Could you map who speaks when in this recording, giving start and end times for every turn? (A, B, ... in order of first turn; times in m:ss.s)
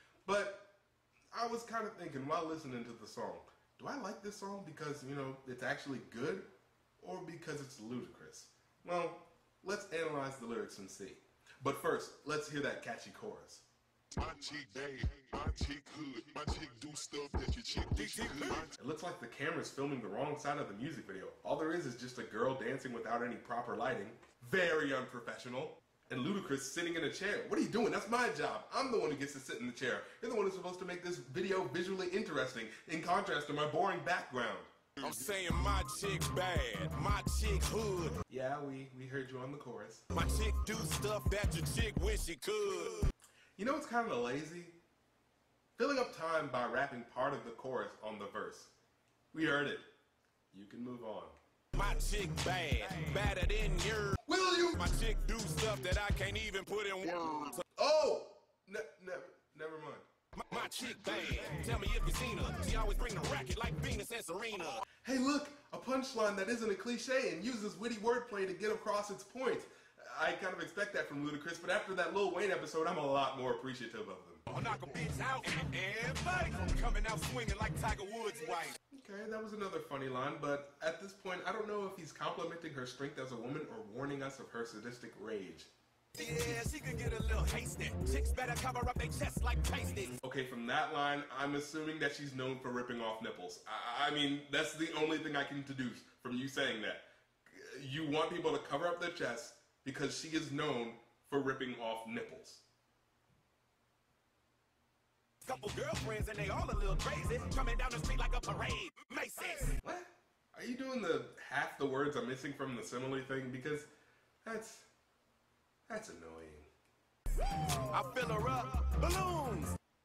0:00.3-0:00.7 A
0:01.3-0:06.5 A
0:07.0-0:13.7 A
0:14.2-0:18.8 B
0:17.9-0:18.7 C
0:18.8-0:34.7 A
0:35.0-0:35.6 B
0:35.0-0:38.2 C
0:38.3-0:40.1 A
0:40.1-0:43.1 C
0:43.6-0:44.8 A
0:45.8-0:48.7 A
0:49.3-0:49.9 A
0:50.5-0:51.4 A
0:51.8-0:54.2 C
0:54.3-0:54.9 A
0:54.7-0:57.6 C
0:57.1-0:57.6 B
0:57.8-1:00.1 A
1:00.4-1:04.8 C
1:00.8-1:01.3 B
1:05.0-1:14.4 A
1:14.5-1:18.8 C
1:18.9-1:25.7 A
1:26.2-1:30.2 C
1:30.2-1:42.6 A
1:45.4-1:49.8 C
1:49.8-1:53.9 A
1:54.4-1:54.9 A
1:55.9-1:56.7 A
1:57.6-1:59.8 C